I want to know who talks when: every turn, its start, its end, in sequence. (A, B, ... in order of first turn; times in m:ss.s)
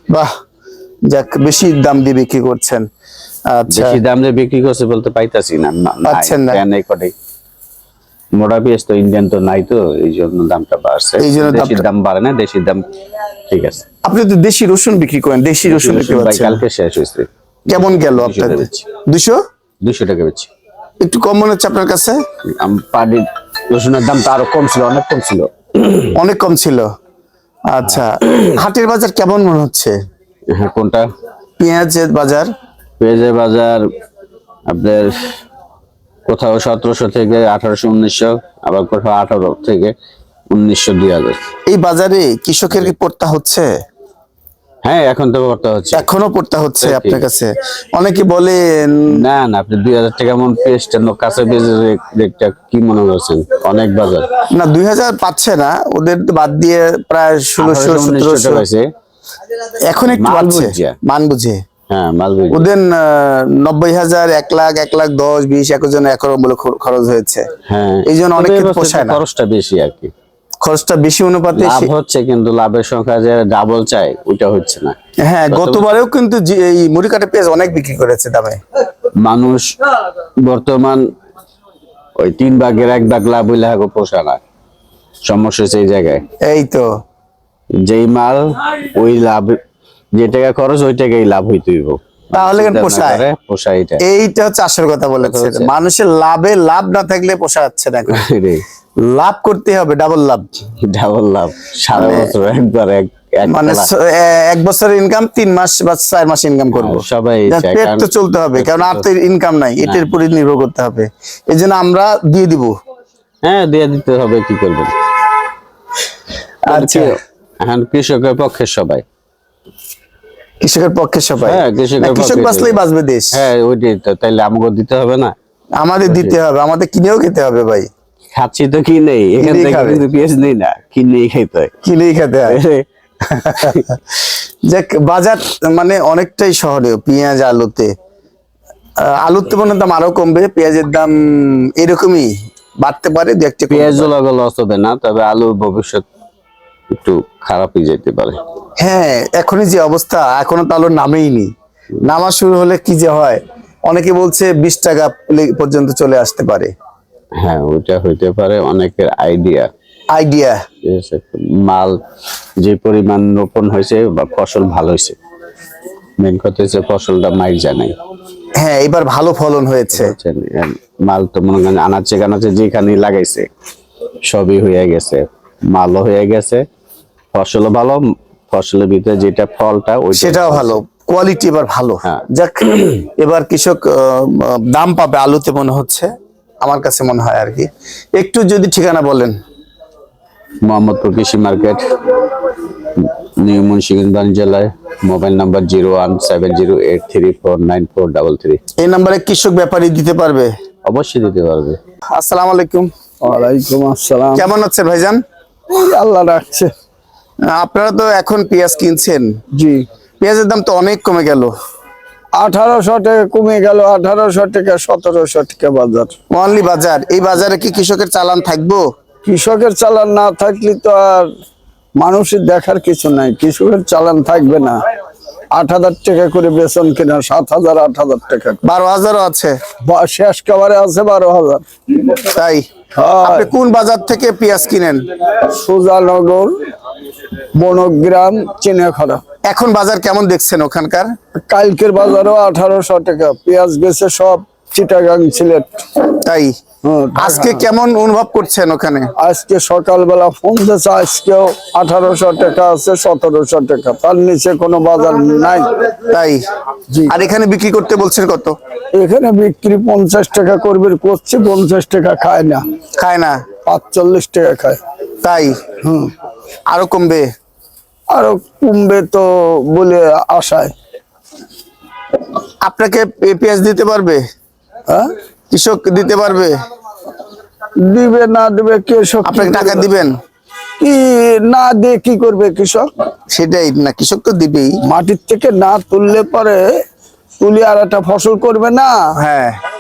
0:01.1-0:02.9 A
0:03.5-0:04.0 A
0:03.7-0:07.1 B
0:06.1-0:06.6 A
0:08.4-0:12.9 B
0:11.2-0:11.8 A
0:13.5-0:13.8 B
0:14.0-0:16.6 A
0:15.7-0:18.9 B
0:17.7-0:19.4 A
0:19.8-0:20.5 B
0:21.0-0:22.2 A
0:22.5-0:26.1 B
0:26.2-0:26.9 A
0:27.7-0:29.9 A
0:27.9-0:28.5 B
0:30.5-0:31.1 B
0:31.6-0:32.5 A
0:33.0-0:33.8 B
0:34.7-0:35.3 B
0:36.3-0:39.9 B
0:40.5-0:41.4 B
0:41.7-0:43.7 A
0:44.8-0:46.1 B
0:45.9-0:49.2 A
0:46.8-0:47.2 B
0:49.2-0:54.4 B
0:54.5-0:58.6 A
0:57.6-0:58.9 B
0:59.9-1:01.6 A
1:00.1-1:01.0 B
1:01.9-1:02.7 B
1:02.5-1:07.4 A
1:07.7-1:10.1 B
1:08.1-1:09.2 A
1:10.6-1:11.9 A
1:11.6-1:15.0 B
1:15.2-1:18.6 A
1:15.5-1:15.8 B
1:19.2-1:19.7 B
1:20.4-1:21.0 B
1:22.2-1:24.4 B
1:25.2-1:26.2 B
1:26.4-1:26.9 A
1:27.9-1:29.6 B
1:30.2-1:34.0 B
1:32.3-1:33.2 A
1:34.0-1:38.2 A
1:35.2-1:35.7 B
1:38.1-1:38.6 B
1:39.0-1:40.5 A
1:40.8-1:43.9 B
1:41.9-1:42.3 A
1:43.5-1:52.7 A
1:46.8-1:49.1 B
1:53.4-1:54.9 B
1:56.7-1:57.1 A
1:56.7-1:59.0 B
2:00.6-2:03.4 A
2:01.4-2:02.8 B
2:03.3-2:05.4 B
2:05.8-2:07.9 A
2:06.1-2:06.4 B
2:08.4-2:11.7 B
2:09.4-2:10.0 A
2:11.8-2:12.6 A
2:12.5-2:12.9 B
2:13.3-2:14.0 A
2:13.5-2:13.9 B
2:14.7-2:17.9 A
2:19.0-2:24.1 A
2:23.7-2:26.0 B
2:26.9-2:28.4 B
2:28.8-2:31.5 A
2:32.0-2:36.7 A
2:37.4-2:39.7 B
2:40.1-2:40.6 A
2:40.8-2:42.0 B
2:42.6-2:45.2 B
2:46.2-2:48.0 B
2:48.6-2:50.1 A
2:49.9-2:53.5 B
2:54.2-2:56.6 B
2:57.3-3:00.8 B
3:00.2-3:06.1 A
3:06.6-3:09.3 A
3:10.7-3:12.2 B
3:13.0-3:18.6 B
3:18.8-3:20.5 A
3:20.9-3:21.8 B
3:22.1-3:22.9 A
3:23.2-3:24.5 C
3:24.4-3:25.2 A
3:25.7-3:26.7 C
3:27.5-3:29.3 A
3:29.5-3:29.8 C
3:30.2-3:31.5 A
3:32.4-3:36.1 C
3:36.3-3:38.8 A
3:39.2-3:41.3 C
3:42.0-3:44.8 C
3:45.5-3:48.6 C
3:48.6-3:49.6 A
3:49.9-3:51.6 C
3:52.0-3:52.6 A
3:53.0-3:53.5 C
3:53.2-3:55.0 A
3:55.4-3:56.5 C
3:57.6-3:59.2 C
3:59.5-4:01.1 A
4:01.4-4:05.8 C
4:06.1-4:06.5 A
4:06.8-4:07.6 C
4:07.2-4:09.1 A
4:09.2-4:15.7 C
4:16.0-4:16.4 A
4:17.1-4:18.6 A
4:19.0-4:22.6 C
4:23.0-4:23.4 A
4:23.7-4:24.8 C
4:25.2-4:25.6 A
4:25.8-4:26.1 C
4:26.7-4:27.3 A
4:28.1-4:30.7 C
4:32.6-4:34.2 A
4:35.5-4:36.5 A
4:37.8-4:39.9 C
4:39.2-4:40.1 A
4:40.8-4:42.9 C
4:43.3-4:44.7 A
4:44.9-4:46.7 C
4:47.4-4:49.0 C
4:49.2-4:49.6 A